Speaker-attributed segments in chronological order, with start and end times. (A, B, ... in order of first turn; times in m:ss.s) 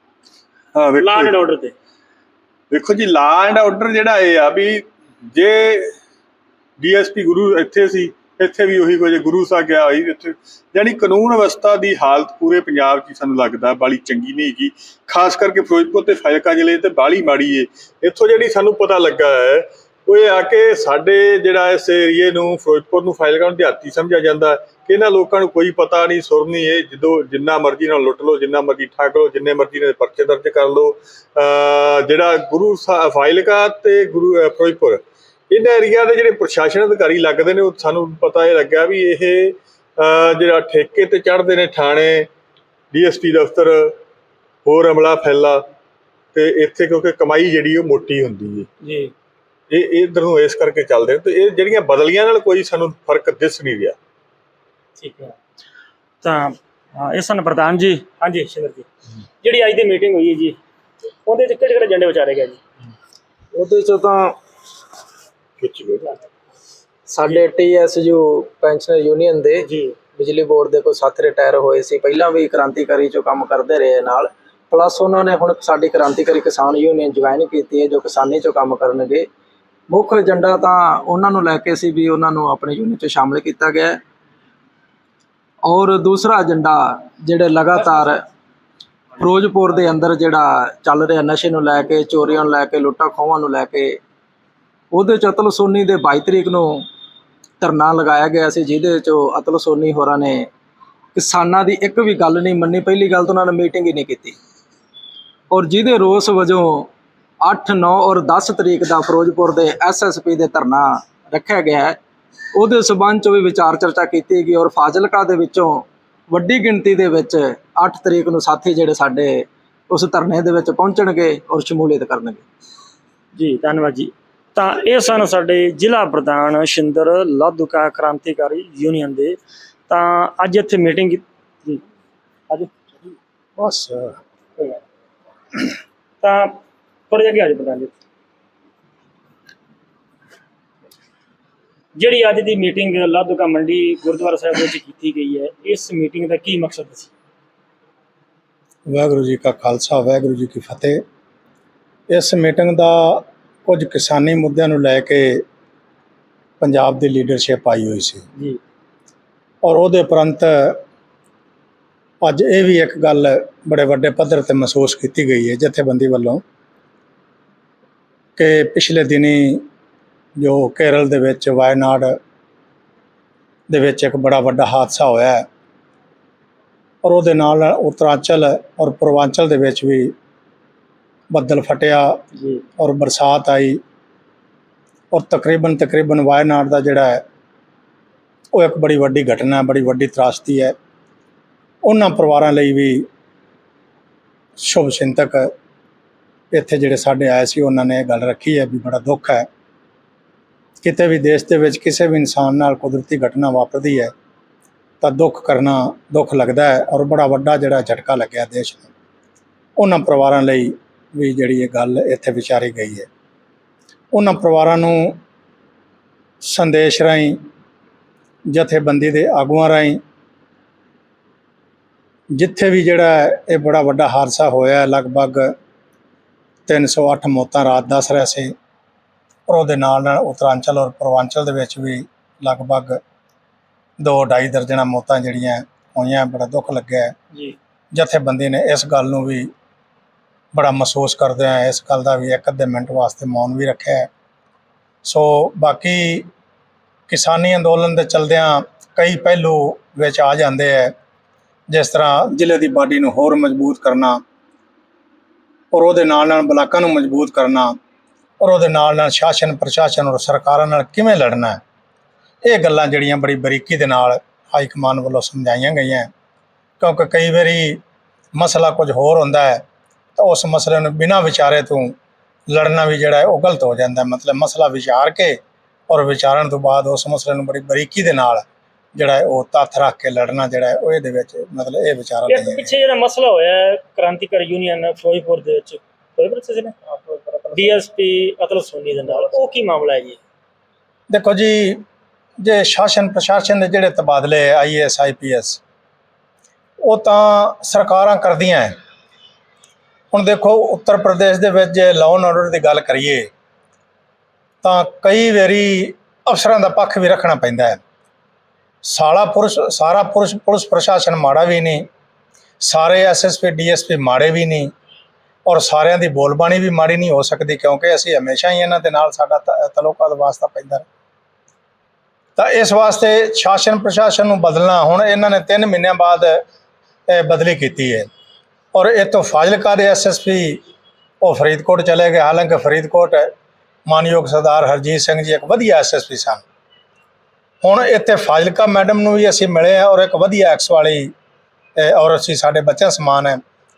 0:00.7-0:01.4 A
0:01.0-0:01.7 B
0:02.7-0:05.9 A
0:06.8-0:42.3 A
0:42.9-0:44.0 A
0:44.6-0:45.6 A
0:46.3-0:48.7 A
0:48.8-0:49.1 B
0:49.7-0:54.0 A
0:55.0-0:55.3 B
0:56.2-0:58.8 B
0:59.4-1:00.6 B
1:01.2-1:02.6 B
1:03.5-1:04.3 C
1:05.6-1:06.2 A
1:07.1-1:09.6 C
1:09.6-1:10.0 B
1:10.2-1:19.3 C
1:19.9-1:24.0 C
1:25.6-1:28.2 C
1:29.2-1:34.0 C
1:34.9-1:36.8 C
1:37.6-1:40.5 C
1:41.1-1:44.4 C
1:45.5-1:46.9 C
1:47.4-1:52.0 C
1:52.5-2:02.4 C
2:03.4-2:09.4 B
2:09.9-2:11.8 B
2:12.5-2:13.1 B
2:13.6-2:14.2 D
2:16.2-2:16.6 B
2:17.1-2:17.9 B
2:22.0-2:27.1 B
2:28.9-2:31.0 D
2:32.1-2:35.4 D
2:36.6-2:38.2 D
2:39.6-2:40.8 D
2:42.2-2:46.4 D
2:48.4-2:49.6 D
2:50.4-2:52.2 D
2:53.7-2:55.4 D
2:57.0-3:00.1 D
3:01.3-3:02.2 D
3:02.4-3:02.6 B
3:02.8-3:03.8 D
3:05.1-3:07.2 D
3:08.5-3:10.7 D
3:11.8-3:13.0 D
3:14.6-3:15.5 D
3:16.5-3:19.4 D
3:20.8-3:24.1 D
3:25.0-3:28.9 D
3:29.8-3:33.1 D
3:34.1-3:35.2 D
3:36.4-3:37.4 D
3:38.5-3:40.0 D
3:42.3-3:45.5 D
3:46.7-3:48.5 D
3:49.5-3:53.0 D
3:54.0-3:57.1 D
3:57.9-3:59.5 D
4:00.5-4:04.1 D
4:05.0-4:06.3 D
4:07.1-4:10.9 D
4:11.7-4:14.2 D
4:15.7-4:17.7 D
4:18.4-4:21.6 D
4:22.4-4:26.1 D
4:26.8-4:27.8 D
4:28.3-4:29.6 D
4:30.2-4:32.0 D
4:32.5-4:35.4 D
4:35.9-4:42.7 D
4:42.3-4:46.8 B
4:47.5-4:50.2 B
4:51.1-4:51.8 D
4:52.4-4:55.6 D
4:56.8-4:58.7 D
5:00.1-5:03.3 D
5:04.6-5:07.8 D
5:08.8-5:11.8 D
5:12.6-5:14.7 D
5:15.4-5:20.8 D
5:22.4-5:26.4 D
5:27.1-5:28.1 D
5:28.7-5:30.6 D
5:31.2-5:33.3 D
5:33.9-5:36.4 D
5:37.6-5:41.1 D
5:41.8-5:43.4 D